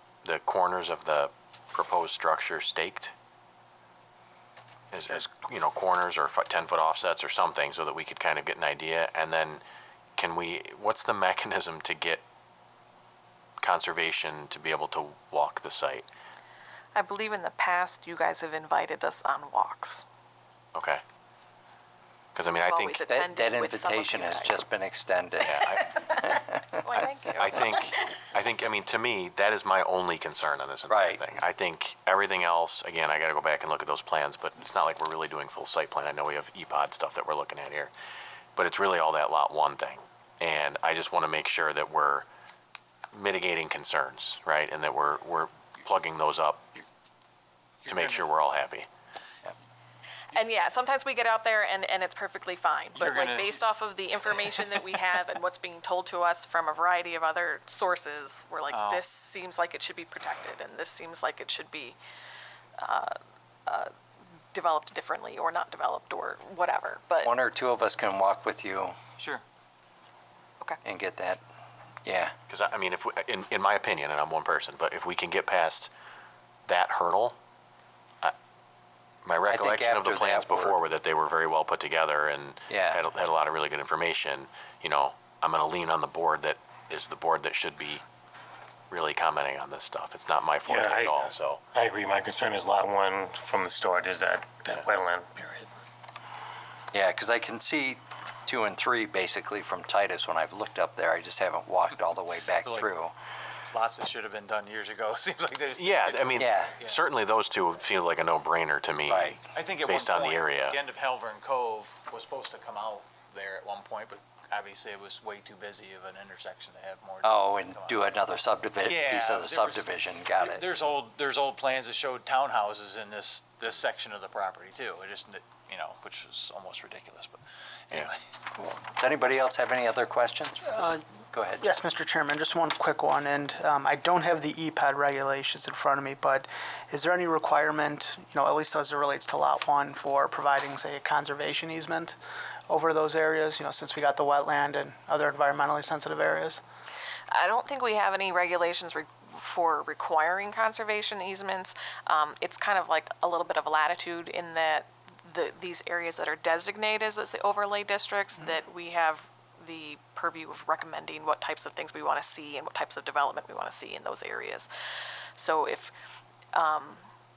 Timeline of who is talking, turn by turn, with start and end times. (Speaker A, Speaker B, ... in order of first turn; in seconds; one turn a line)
Speaker A: 0.2-3.1
Speaker A: 4.9-9.6
Speaker A: 10.2-12.2
Speaker A: 13.6-16.1
Speaker B: 16.9-20.0
Speaker A: 20.7-21.0
Speaker A: 22.3-23.0
Speaker B: 22.7-24.6
Speaker C: 23.1-26.8
Speaker A: 25.4-26.0
Speaker B: 26.8-28.2
Speaker A: 27.4-37.9
Speaker C: 30.9-31.2
Speaker A: 38.5-42.2
Speaker A: 43.1-46.7
Speaker D: 47.8-48.3
Speaker A: 47.9-48.9
Speaker B: 50.3-62.0
Speaker D: 52.9-53.6
Speaker D: 54.3-54.8
Speaker D: 58.7-59.0
Speaker B: 62.8-63.9
Speaker B: 64.5-67.3
Speaker C: 67.2-69.0
Speaker C: 70.8-71.4
Speaker C: 72.0-72.3
Speaker A: 72.5-75.9
Speaker A: 76.7-77.4
Speaker A: 79.2-88.0
Speaker C: 79.5-80.8
Speaker C: 82.7-83.0
Speaker A: 88.9-91.6
Speaker E: 90.7-91.2
Speaker E: 91.7-95.7
Speaker C: 96.9-103.1
Speaker D: 103.7-107.0
Speaker A: 105.8-110.8
Speaker C: 106.4-106.7
Speaker C: 109.1-109.4
Speaker D: 109.5-118.1
Speaker C: 117.2-120.6
Speaker D: 118.8-119.8
Speaker D: 120.4-128.2
Speaker C: 128.6-131.6
Speaker F: 131.6-142.2
Speaker F: 142.7-146.6
Speaker B: 147.3-164.7
Speaker B: 165.4-165.9
Speaker B: 166.5-167.0